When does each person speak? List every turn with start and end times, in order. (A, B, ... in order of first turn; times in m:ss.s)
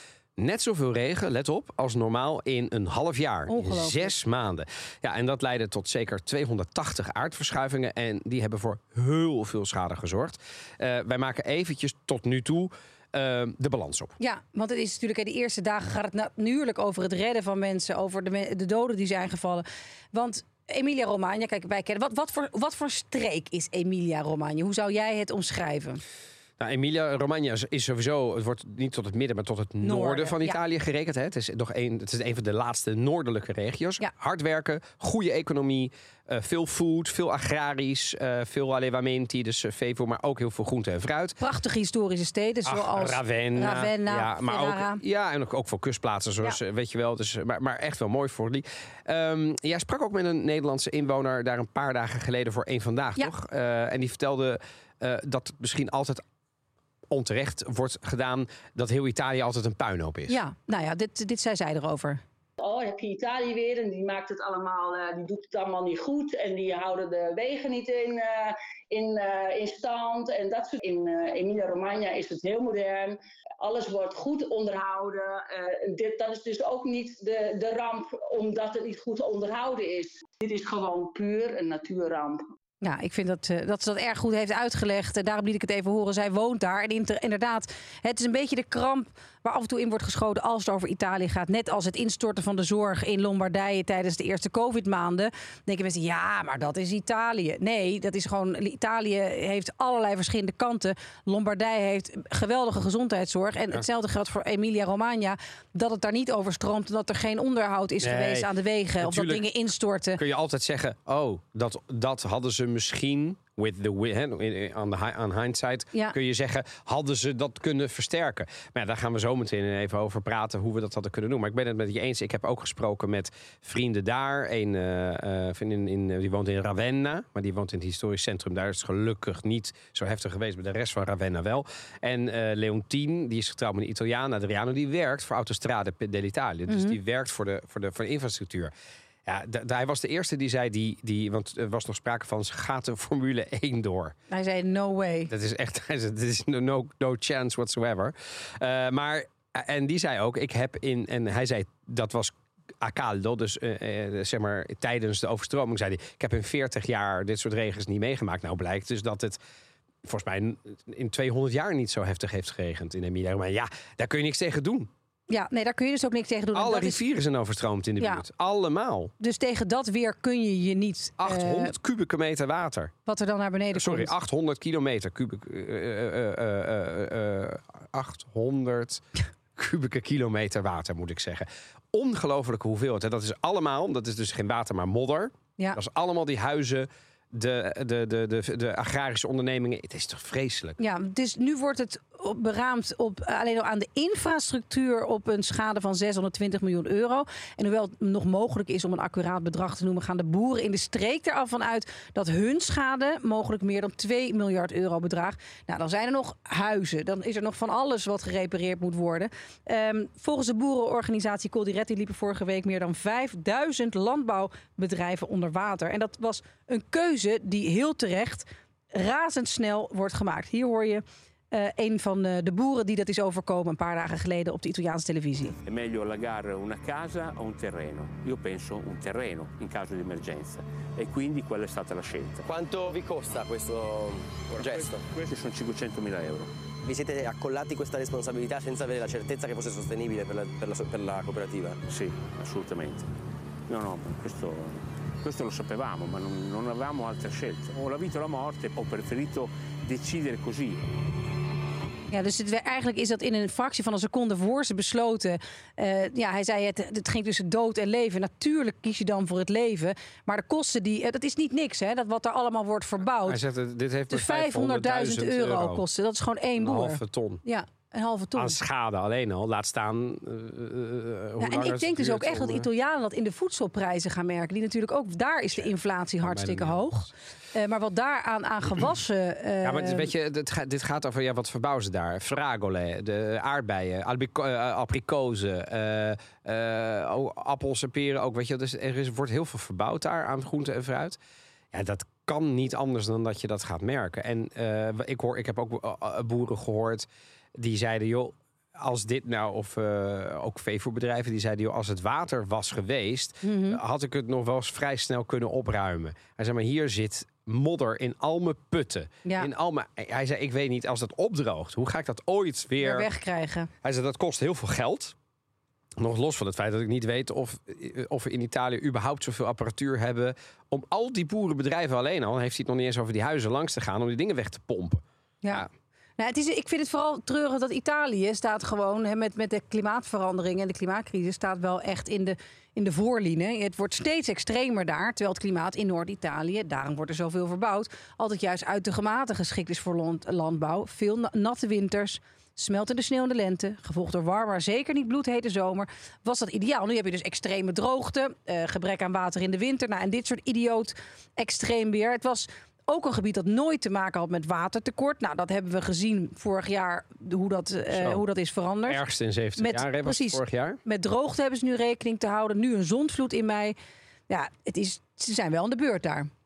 0:00.4-0:14.2 A
0:03.5-0:04.1 B
0:14.2-0:26.0 B
0:26.6-0:41.4 A
0:29.8-0:30.6 B
0:41.4-0:45.0 B
0:42.7-0:56.2 A
0:57.1-1:00.4 A
1:00.3-1:02.2 B
1:02.6-1:22.4 C
1:22.8-1:50.2 B
1:48.0-1:49.4 A
1:50.2-2:18.7 A
2:16.7-2:17.0 B
2:19.3-2:24.2 A
2:24.3-2:25.3 B
2:25.3-2:39.4 A
2:40.0-2:44.9 A
2:45.3-2:47.0 B
2:46.5-2:49.1 A
2:49.2-2:51.8 B
2:51.2-2:52.9 A
2:53.1-2:54.1 B
2:53.7-2:59.0 A
2:59.6-3:10.8 A
3:10.8-3:45.6 B
3:45.6-3:52.5 D
3:52.4-3:55.0 E
3:54.5-3:56.5 D
3:56.9-4:01.8 E
4:01.9-4:03.1 D
4:03.7-4:10.8 D
4:12.1-4:23.4 B
4:23.3-4:25.8 A
4:24.1-4:28.6 B
4:26.6-4:27.4 A
4:28.4-4:32.7 A
4:31.4-4:40.1 B
4:36.2-4:36.9 A
4:39.6-4:51.2 A
4:51.7-5:13.1 A
5:03.4-5:03.8 B
5:09.2-5:09.5 B
5:12.8-5:13.7 B
5:13.8-5:15.2 A
5:16.0-5:25.7 A
5:26.2-5:59.0 B
5:57.9-5:58.2 A
5:58.9-6:00.8 A
5:59.6-6:03.8 B
6:04.3-6:06.3 B